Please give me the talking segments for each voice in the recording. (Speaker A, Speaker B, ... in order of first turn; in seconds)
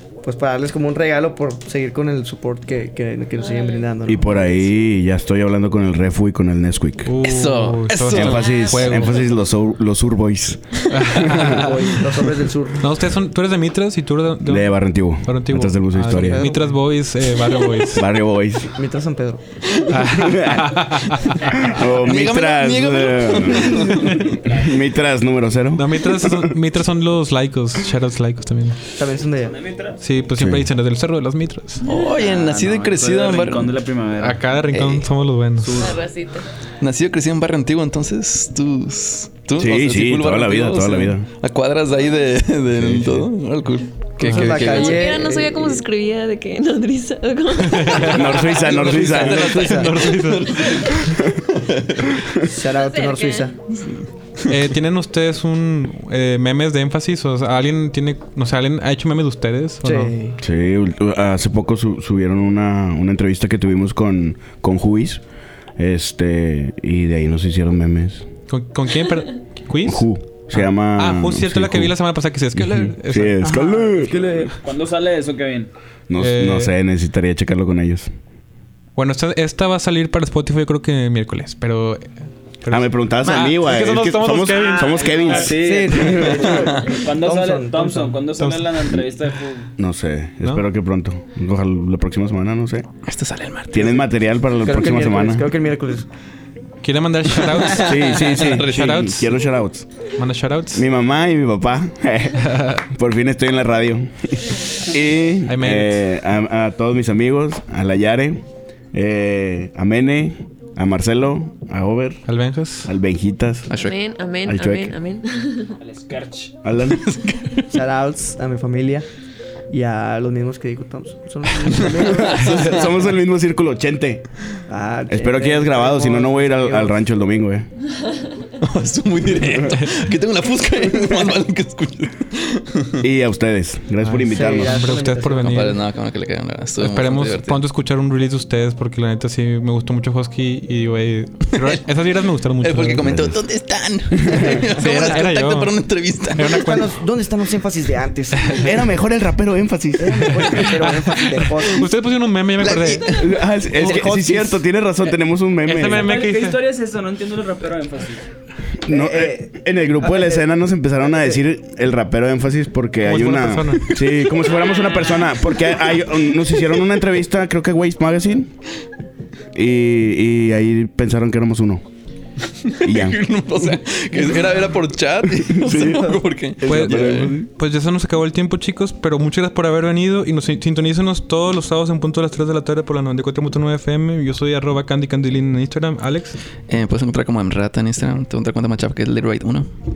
Speaker A: 0.2-4.6, 11.3-12.8, 16.1-16.6, 18.7-19.4, 29.0-29.5, 44.2-45.8, 49.5-49.9, 52.4-53.5, 59.8-60.4, 73.4-74.5, 85.5-88.1, 94.6-96.1, 117.7-119.0, 119.7-122.9, 124.7-126.9, 134.2-135.7, 144.5-145.2, 146.4-148.7, 150.0-151.9, 152.9-154.6, 158.9-159.5, 160.0-160.4
Speaker B: 3.4-3.8, 8.2-8.9, 35.8-36.4, 44.3-48.5, 52.7-53.5, 113.8-115.8
Speaker C: 4.1-7.1, 8.1-11.6, 14.4-16.5, 17.9-18.7, 20.1-20.8, 21.5-26.5, 30.4-30.6, 39.6-41.3, 42.7-43.3, 48.0-49.7, 60.4-65.2, 65.8-68.2, 69.8-71.9, 72.5-74.3, 76.1-78.1, 82.7-85.6, 89.8-92.9, 93.7-95.5, 97.8-99.9, 100.7-112.2, 112.8-113.7, 114.4-114.9, 116.6-117.2, 121.9-124.2, 125.1-127.7, 133.0-134.8, 143.0-143.4, 148.5-150.8, 153.1-156.2, 158.8-168.5, 169.5-171.8, 172.8-173.2, 175.3-177.5
Speaker D: 7.0-9.2, 10.9-11.9, 12.8-18.0, 19.9-21.4, 25.7-28.8, 30.0-31.8, 34.2-35.9, 44.2-44.5, 47.7-51.0, 54.5-60.1, 68.5-73.4, 76.2-76.7, 79.0-82.1, 82.6-85.5, 88.4-88.6, 96.8-99.3, 100.2-100.8, 102.4-102.8, 105.5-106.0, 112.3-112.9, 129.6-129.9, 134.0-135.8, 136.8-143.1, 144.7-145.8, 146.3-146.9, 148.4-148.7, 150.3-153.1, 155.6-156.6, 163.0-164.0, 176.7-186.4
Speaker E: 7.2-8.6, 21.7-24.3, 31.8-33.7, 34.7-35.0, 36.8-45.1, 48.4-52.1, 93.0-94.0, 97.5-98.7, 113.7-114.0, 116.9-117.4, 121.8-122.5, 128.6-133.0, 135.4-137.6, 142.6-146.6, 152.6-153.4, 172.7-177.3, 186.7-189.7
Speaker F: 21.5-21.9, 24.3-24.8, 29.4-30.0, 31.8-34.6, 35.6-36.1, 74.6-75.7, 84.4-89.7, 115.8-116.5, 155.8-158.2, 164.5-165.3